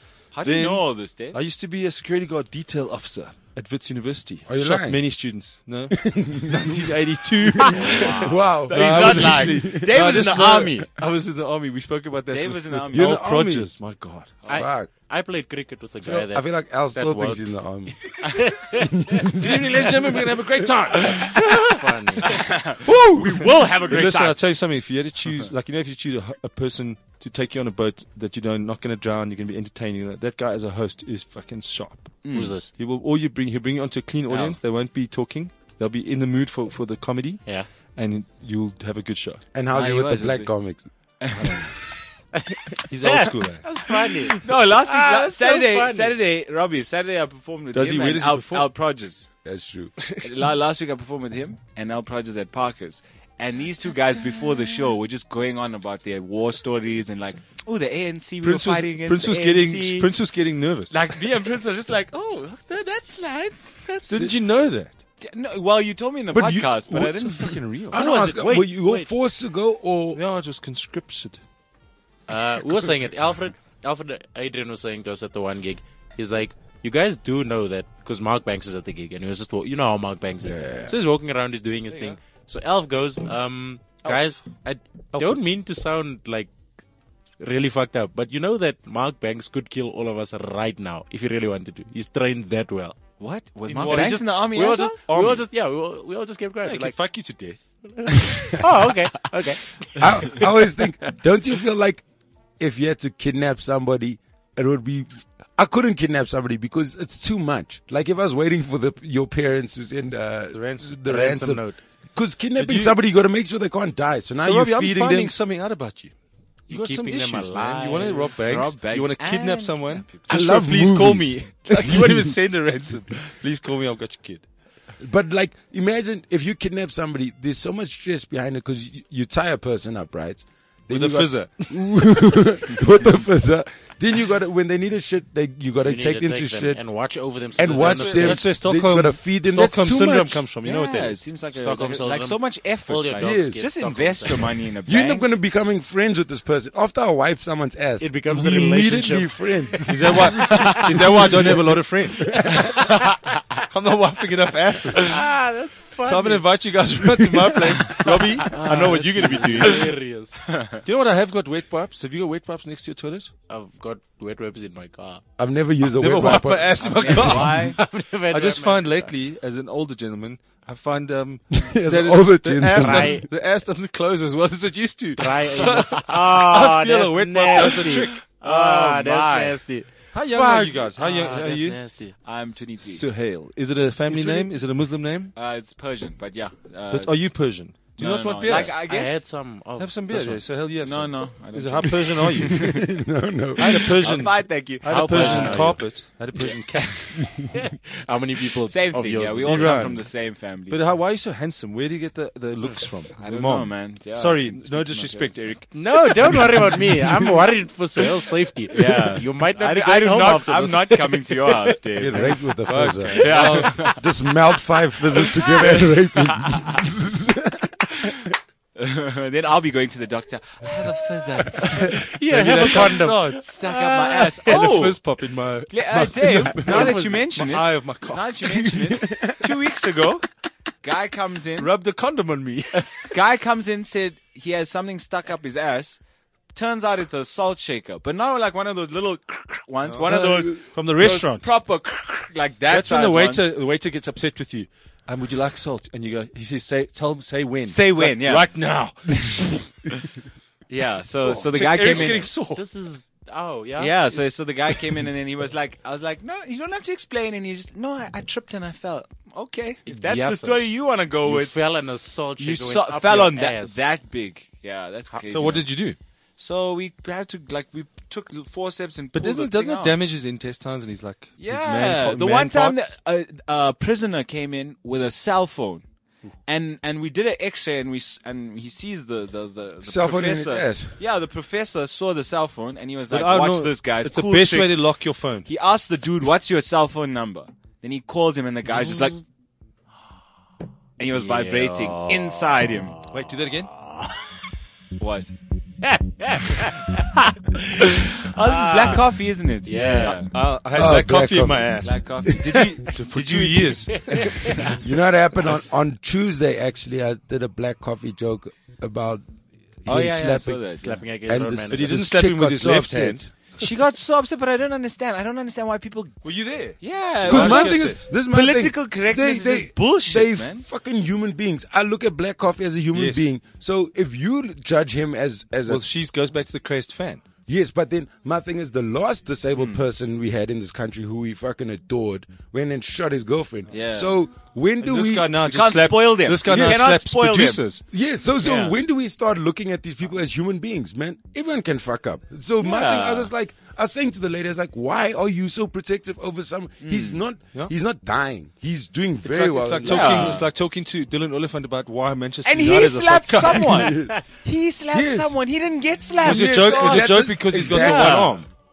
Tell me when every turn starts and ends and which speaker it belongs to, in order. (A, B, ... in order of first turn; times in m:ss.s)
0:00.3-0:01.4 A
0:00.4-0:08.2 B
0:04.5-0:05.0 C
0:05.9-0:06.9 C
0:07.6-0:10.0 C
0:07.7-0:10.9 A
0:08.7-0:14.3 B
0:12.3-0:13.2 A
0:12.9-0:13.7 C
0:14.4-0:19.4 D
0:14.5-0:14.9 C
0:16.0-0:17.9 C
0:18.7-0:19.6 C
0:19.3-0:21.6 B
0:21.2-0:22.5 D
0:22.2-0:24.4 A
0:22.8-0:23.5 C
0:23.8-0:40.5 B
0:32.2-0:32.5 A
0:32.3-0:32.7 D
0:34.3-0:34.6 D
0:39.5-0:40.8 C
0:41.2-0:41.7 A
0:41.3-0:41.6 B
0:42.3-0:46.2 D
0:42.9-0:43.7 B
0:44.0-0:49.3 A
0:47.7-0:48.7 B
0:49.4-0:50.0 C
0:50.0-0:50.3 B
0:50.2-1:00.1 A
0:58.4-1:00.9 B
1:00.9-1:04.1 A
1:04.0-1:05.0 B
1:05.2-1:08.3 A
1:06.3-1:08.0 B
1:07.9-1:10.2 C
1:07.9-1:09.1 D
1:10.1-1:11.4 B
1:12.3-1:26.5 D
1:20.4-1:20.9 C
1:21.9-1:22.2 B
1:25.1-1:25.4 B
1:27.4-1:33.0 D
1:33.2-1:35.0 A
1:33.6-1:35.4 B
1:33.8-1:37.0 D
1:36.6-1:37.6 B
1:37.8-1:40.6 D
1:40.0-1:42.0 C
1:42.6-1:55.3 C
1:50.5-1:51.0 B
1:51.0-1:51.8 D
1:52.6-1:53.0 B
1:54.4-1:56.1 B
1:56.7-2:04.4 B
1:56.7-1:58.3 D
1:58.1-2:00.3 A
2:00.3-2:02.4 C
2:05.0-2:16.8 C
2:10.9-2:11.8 B
2:15.8-2:18.4 D
2:17.5-2:20.4 C
2:17.8-2:21.2 B
2:20.6-2:25.2 A
2:21.5-2:24.5 D
2:23.2-2:23.6 C
2:24.9-2:30.5 C
2:28.0-2:31.6 D
2:29.9-2:32.8 B
2:30.5-2:31.0 A
2:33.7-2:35.2 B
2:35.0-2:36.5 D
2:36.0-2:39.9 B
2:38.5-2:40.4 D
2:40.8-2:43.3 B
2:43.5-2:45.2 D
2:45.4-2:47.3 C
2:46.0-2:58.2 B
2:46.9-2:47.8 A
2:47.0-2:49.1 D
2:51.5-2:53.2 C
2:52.7-2:53.2 D
2:55.2-3:02.1 D
2:57.9-2:59.6 A
3:00.1-3:01.8 B
3:02.2-3:03.0 A
3:02.8-3:05.3 B
3:04.1-3:04.5 A
3:05.3-3:07.4 A
3:06.9-3:08.7 B
3:08.0-3:09.2 A
3:08.5-3:10.4 D
3:09.8-3:12.8 B
3:10.8-3:12.9 A
3:12.6-3:13.9 C
3:13.6-3:17.1 B
3:13.6-3:15.8 A
3:14.8-3:15.9 D
3:16.4-3:17.1 A
3:17.5-3:20.0 D
3:18.7-3:20.8 A
3:19.4-3:26.1 B
3:23.2-3:25.4 A
3:25.7-3:31.8 D
3:28.7-3:32.5 A
3:32.0-3:37.7 C
3:32.6-3:33.9 B
3:33.1-3:34.1 A
3:35.1-3:36.6 A
3:38.7-3:45.0 A
3:41.6-3:43.5 B
3:41.8-3:44.6 D
3:44.4-3:48.6 B
3:45.7-3:50.2 A
3:48.5-3:49.5 C
3:50.8-3:51.7 A
3:51.6-3:53.1 B
3:53.1-3:56.0 A
3:56.5-4:03.4 A
3:59.8-4:01.5 B
4:00.1-4:00.4 C
4:02.7-4:09.6 B
4:07.7-4:08.5 A
4:10.7-4:12.3 A
4:11.2-4:12.6 B
4:11.8-4:14.0 D
4:13.8-4:21.6 A
4:19.9-4:23.8 D
4:22.4-4:25.7 A
4:25.3-4:26.0 B
4:26.4-4:30.0 A
4:29.1-4:32.9 B
4:31.4-4:35.8 A
4:36.4-4:44.8 A
4:39.8-4:41.0 C
4:43.1-4:45.5 B
4:45.4-4:49.2 A
4:51.0-4:53.0 A
4:51.1-4:53.1 D
4:53.1-4:53.7 B
4:53.8-4:54.1 D
4:55.0-4:55.3 A
4:55.8-4:57.0 D
4:57.7-5:00.3 A
4:58.4-4:59.0 D
4:59.6-5:00.3 D
5:00.3-5:04.8 B
5:00.7-5:02.7 C
5:01.8-5:03.8 A
5:03.9-5:04.7 D
5:04.8-5:09.2 C
5:09.8-5:10.6 C
5:09.9-5:10.4 B
5:09.9-5:11.0 A
5:10.8-5:11.9 D
5:11.2-5:13.3 C
5:11.7-5:13.3 B
5:13.6-5:16.2 A
5:16.2-5:18.0 B
5:16.8-5:20.6 A
5:17.2-5:25.8 C
5:22.9-5:23.3 B
5:25.7-5:27.2 B
5:27.5-5:35.4 C
5:29.5-5:29.8 A
5:33.7-5:34.2 A
5:34.8-5:37.8 B
5:35.4-5:37.6 A
5:36.4-5:36.8 C
5:37.9-5:50.4 C
5:38.4-5:38.8 A
5:42.6-5:43.3 A
5:46.8-5:47.2 A
5:49.2-5:53.9 B
5:49.8-5:50.5 A
5:52.4-5:58.4 A
5:53.6-5:54.2 C
5:54.9-5:55.4 C
5:56.2-5:58.4 C
5:56.2-5:58.5 B